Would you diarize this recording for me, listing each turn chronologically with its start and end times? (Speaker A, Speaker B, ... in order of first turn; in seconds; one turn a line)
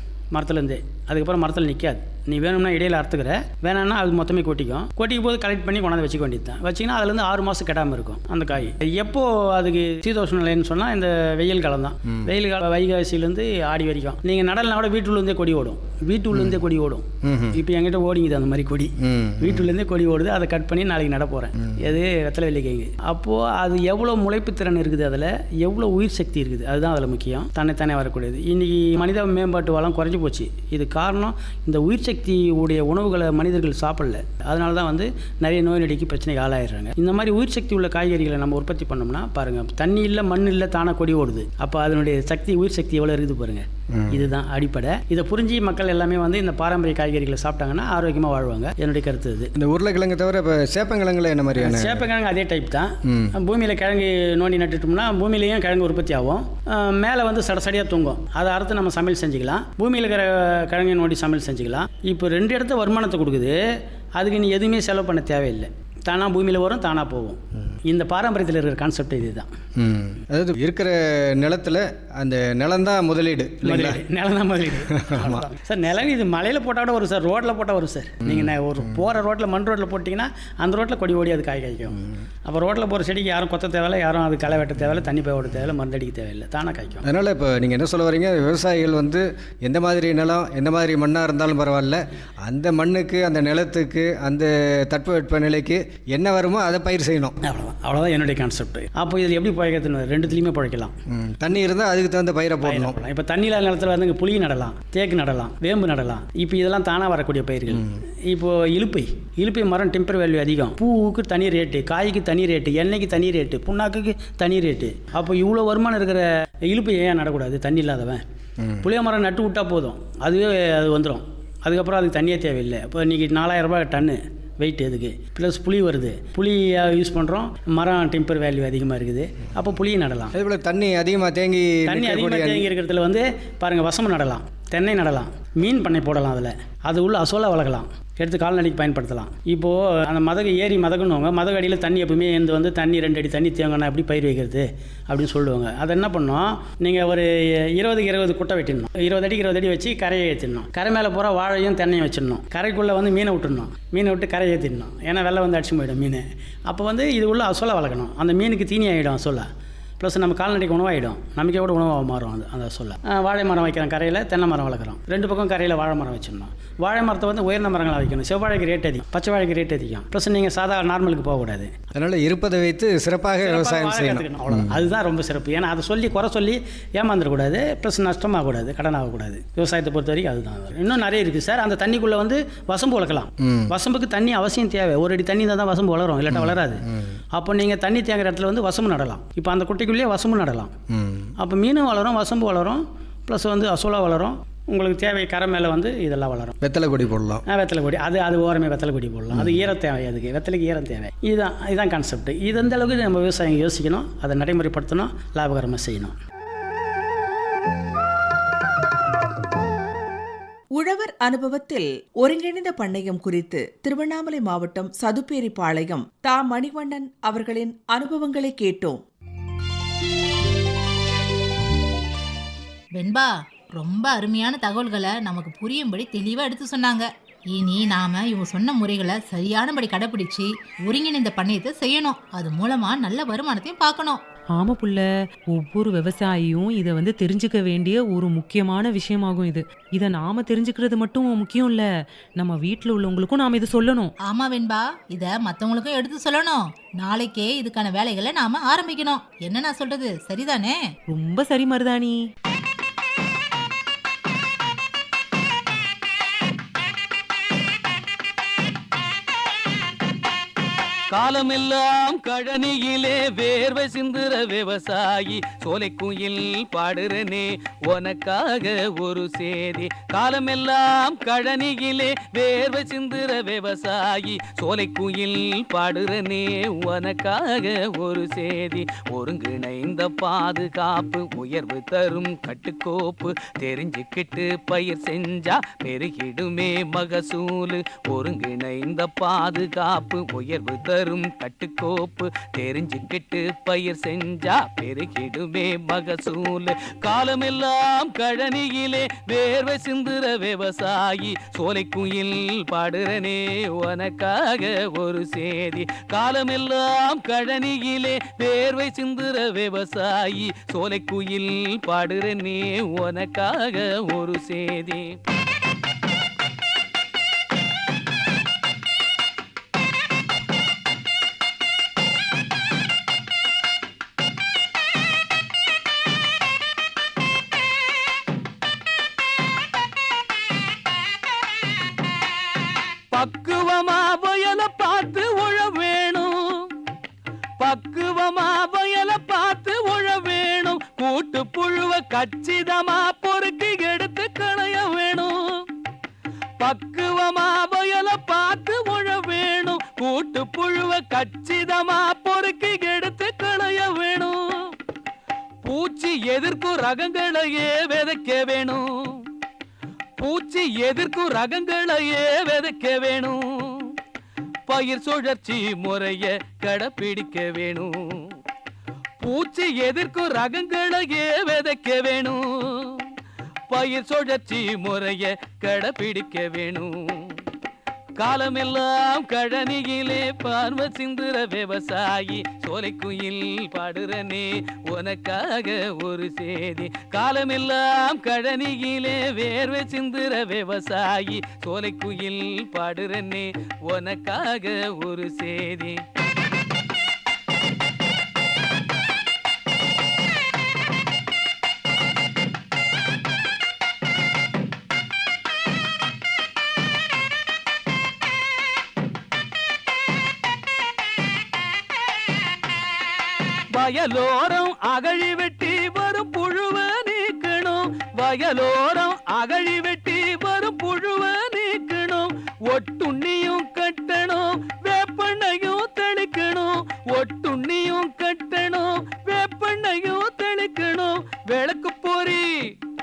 Speaker A: 0.3-49.5
Speaker B: 16.3-16.6
Speaker B: 17.2-17.6
Speaker B: 19.0-19.7
Speaker B: 43.9-44.3
Speaker B: 49.5-52.1
Speaker A: 51.6-63.6
Speaker B: 53.0-53.3
Speaker A: 64.2-69.5
Speaker B: 69.8-74.0
Speaker A: 73.6-87.0
Speaker B: 75.0-75.4
Speaker B: 78.2-79.0
Speaker B: 87.0-97.3
Speaker A: 97.4-100.9
Speaker B: 101.1-103.0
Speaker A: 102.6-118.2
Speaker A: 118.8-130.3
Speaker B: 130.3-132.7
Speaker A: 131.9-159.5
Speaker A: 160.0-171.7
Speaker B: 171.9-174.8
Speaker A: 173.4-186.8
Speaker B: 183.4-183.7
Speaker B: 186.3-187.1
Speaker A: 187.3-190.7
Speaker B: 190.9-191.3
Speaker A: 191.4-196.6
Speaker B: 196.6-197.4
Speaker A: 197.5-206.1
Speaker B: 199.3-199.6
Speaker C: 210.8-219.0
Speaker D: 222.9-234.2
Speaker E: 234.6-241.9
Speaker E: 242.4-244.1
Speaker D: 244.2-250.8
Speaker E: 251.1-252.2
Speaker F: 261.1-315.1
Speaker F: 333.1-336.7
Speaker F: 337.6-345.6
Speaker F: 346.6-354.4
Speaker F: 355.6-359.2
Speaker F: 360.2-363.9
Speaker F: 364.7-367.9
Speaker F: 369.2-373.0
Speaker F: 373.7-377.4
Speaker F: 378.2-396.0
Speaker F: 413.7-432.5